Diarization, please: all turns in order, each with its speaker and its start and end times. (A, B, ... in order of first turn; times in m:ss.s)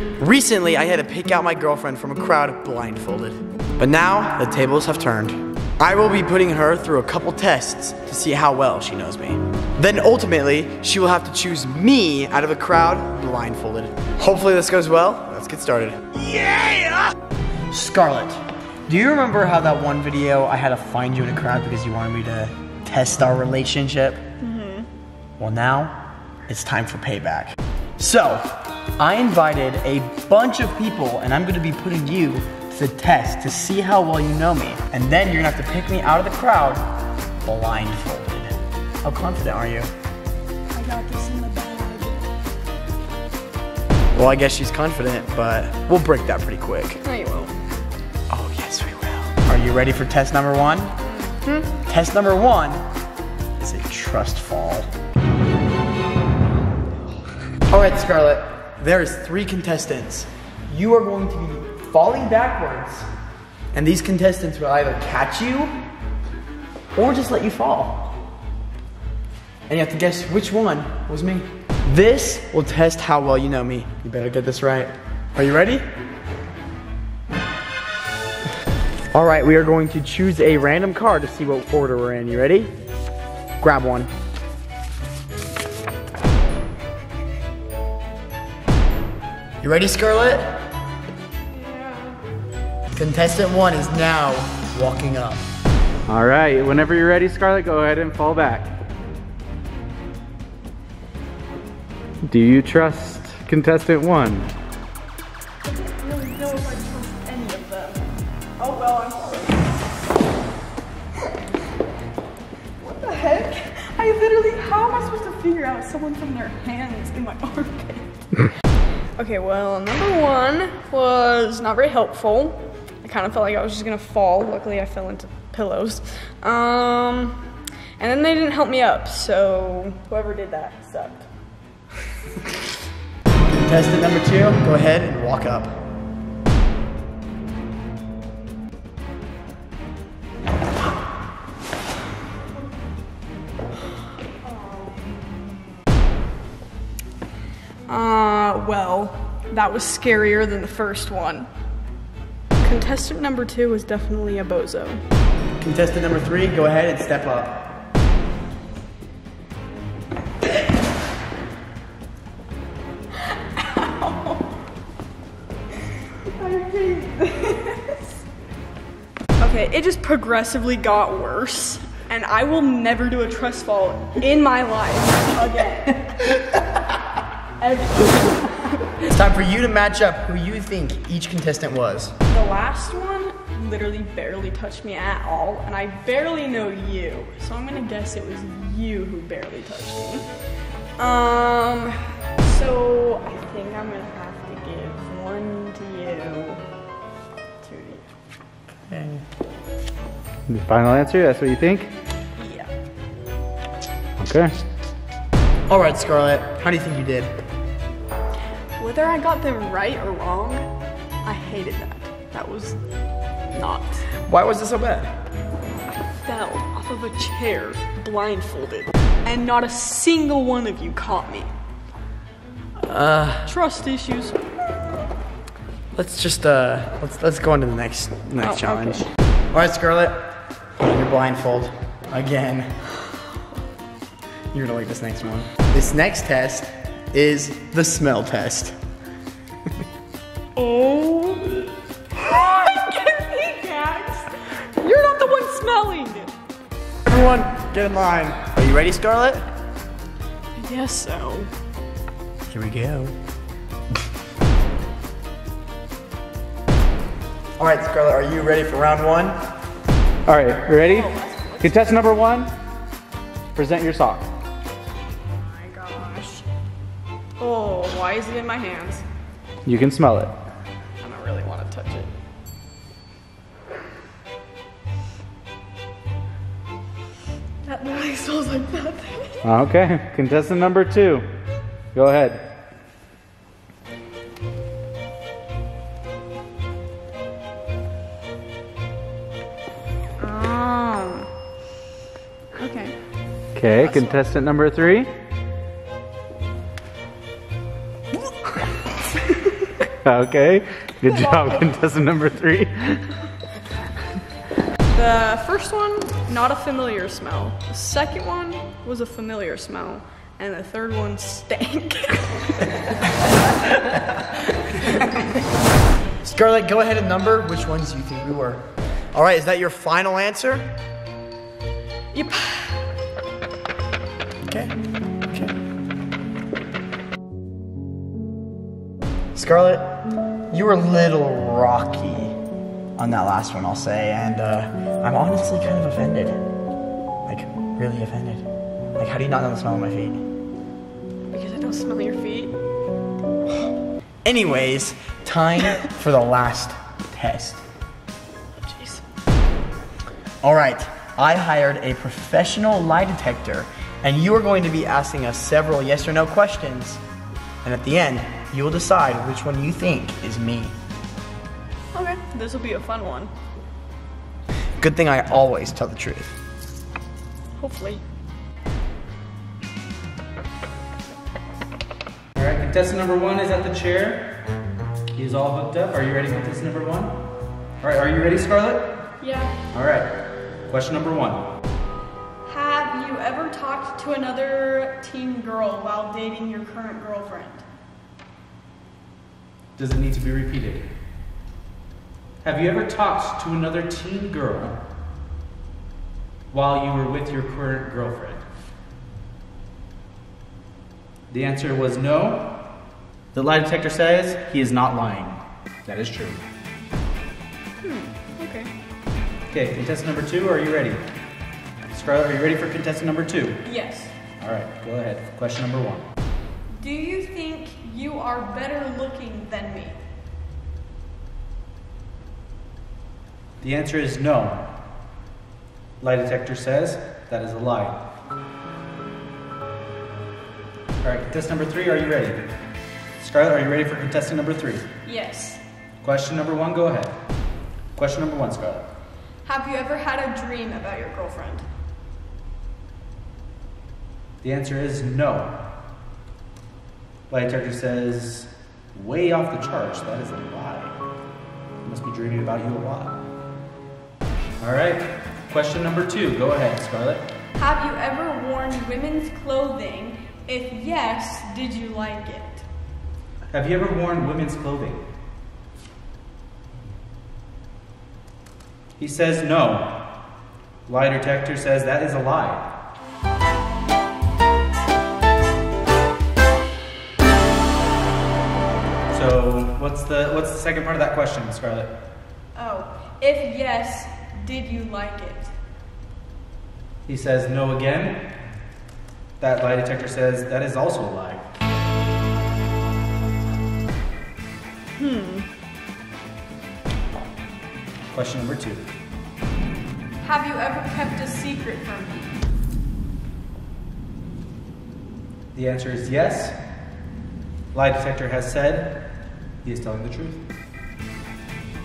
0:00.2-0:17.2 A
0:17.7-0:24.2 A
0:24.4-0:24.9 B
0:25.4-0:39.9 A
0:40.7-0:42.2 B
0:44.2-0:47.0 A
0:47.0-0:47.5 B
0:48.3-0:51.0 A
0:51.0-0:51.7 B
0:51.8-0:52.8 A
0:53.6-0:54.9 A
0:57.7-1:03.1 A
1:03.7-1:05.7 A
1:07.0-1:08.1 A
1:09.7-1:15.8 A
1:19.1-1:22.7 A
1:23.6-1:24.1 A
1:29.6-1:30.6 A
1:31.5-1:32.2 B
1:32.9-1:35.4 A
1:36.1-1:38.8 C
1:42.3-1:44.5 C
1:45.6-1:49.9 B
1:52.8-1:58.3 B
1:59.2-2:11.3 B
2:13.5-2:15.8 A
2:24.4-2:25.0 B
2:27.9-2:31.5 B
2:32.6-2:35.0 B
2:35.6-2:37.7 A
2:43.2-2:44.5 B
2:46.0-2:48.1 B
2:49.4-2:56.3 B
2:57.6-2:58.9 B
2:59.0-3:02.2 A
3:02.3-3:10.3 B
3:11.0-3:16.6 B
3:17.6-3:18.1 B
3:18.9-3:19.2 A
3:20.5-3:21.9 C
3:22.4-3:22.7 B
3:24.2-3:24.6 C
3:25.7-3:27.4 A
3:28.8-3:30.7 B
3:31.2-3:32.8 B
3:33.5-3:34.1 B
3:34.2-3:35.1 A
3:35.9-3:41.5 B
3:42.8-3:43.5 A
3:43.4-3:44.4 B
3:45.9-3:52.8 A
3:48.4-3:49.0 B
3:54.5-3:58.8 A
4:00.6-4:06.3 B
4:07.1-4:09.5 A
4:10.6-4:11.5 B
4:12.5-4:13.1 A
4:17.6-4:19.4 A
4:20.3-4:22.5 C
4:20.8-4:22.2 B
4:23.5-4:24.3 C
4:25.3-4:26.5 B
4:27.4-4:29.0 B
4:29.6-4:30.3 C
4:31.0-4:32.1 B
4:37.6-4:39.4 B
4:39.4-4:41.3 C
4:41.9-4:42.5 C
4:50.2-4:51.3 B
4:52.6-4:53.0 B
4:53.6-4:55.1 C
4:53.8-4:54.3 B
4:59.2-4:59.7 B
4:59.9-5:03.1 C
5:04.9-5:13.1 B
5:16.2-5:20.7 A
5:22.1-5:22.8 B
5:24.4-5:24.8 A
5:25.3-5:25.5 A
5:29.3-5:30.0 A
5:30.5-5:32.4 A
5:33.0-5:36.4 A
5:37.3-5:38.5 A
5:39.0-5:40.2 A
5:41.3-5:42.6 B
5:44.2-5:47.6 A
5:48.6-5:49.0 B
5:50.4-5:57.0 A
5:57.6-6:00.7 A
6:01.9-6:03.3 B
6:04.8-6:06.4 A
6:07.6-6:08.0 B
6:12.4-6:14.4 C
6:15.2-6:17.3 C
6:17.8-6:19.1 C
6:19.2-6:19.6 B
6:19.7-6:21.5 C
6:22.5-6:27.6 B
6:29.8-6:30.9 C
6:32.4-6:34.8 C
6:36.5-6:38.4 C
6:41.3-6:42.7 C
6:43.3-6:46.4 C
6:47.8-6:48.7 B
6:49.5-6:51.1 C
6:51.9-6:53.6 C
6:53.6-6:54.2 B
6:54.4-6:56.1 C
6:56.7-7:00.0 B
7:03.6-7:04.8 C
7:06.0-7:08.1 C
7:11.0-7:12.5 C
7:13.2-7:14.9 C
7:15.0-7:15.6 B
7:16.0-7:17.2 C
7:18.0-7:18.9 C
7:19.4-7:21.6 B
7:24.4-7:25.6 C
7:27.3-7:31.0 C
7:31.8-7:33.2 C
7:34.6-7:37.3 C
7:37.6-7:42.7 B
7:43.5-7:45.1 C
7:49.0-7:50.2 C
7:50.9-7:52.7 C
7:59.1-8:02.0 C
8:02.6-8:05.6 B
8:07.1-8:08.3 C
8:09.4-8:11.6 C
8:15.0-8:15.5 B
8:18.1-8:18.9 C
8:20.2-8:22.4 B
8:25.5-8:26.6 C
8:27.7-8:30.4 C